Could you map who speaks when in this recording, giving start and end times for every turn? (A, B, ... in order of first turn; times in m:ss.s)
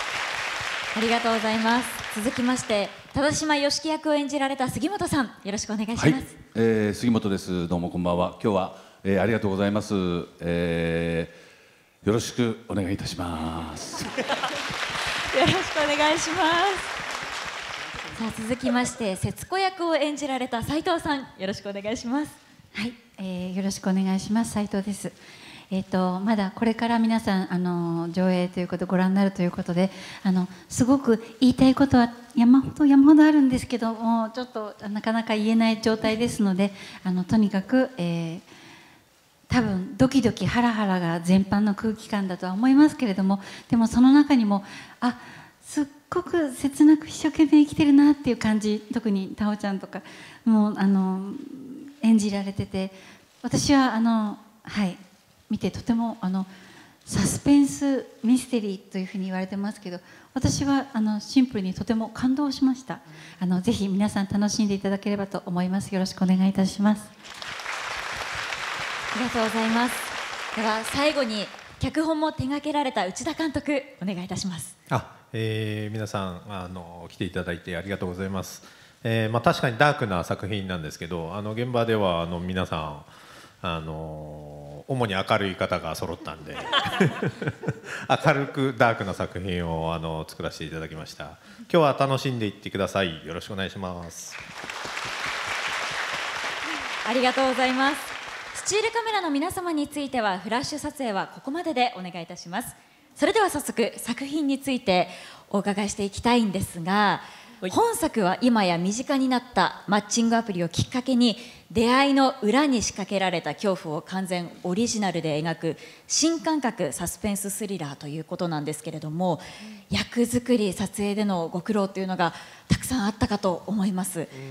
0:00.9-0:06.3 A
0:06.0-0:11.3 B
0:12.0-0:14.2 B
0:15.2-0:16.9 A
0:18.1-0:22.4 A
0:22.7-0:25.2 C
0:25.7-0:38.4 C
0:39.5-0:56.5 C
0:57.0-1:07.1 C
1:09.1-1:14.7 A
1:14.9-1:23.1 D
1:23.6-1:34.4 D
1:37.0-2:04.3 A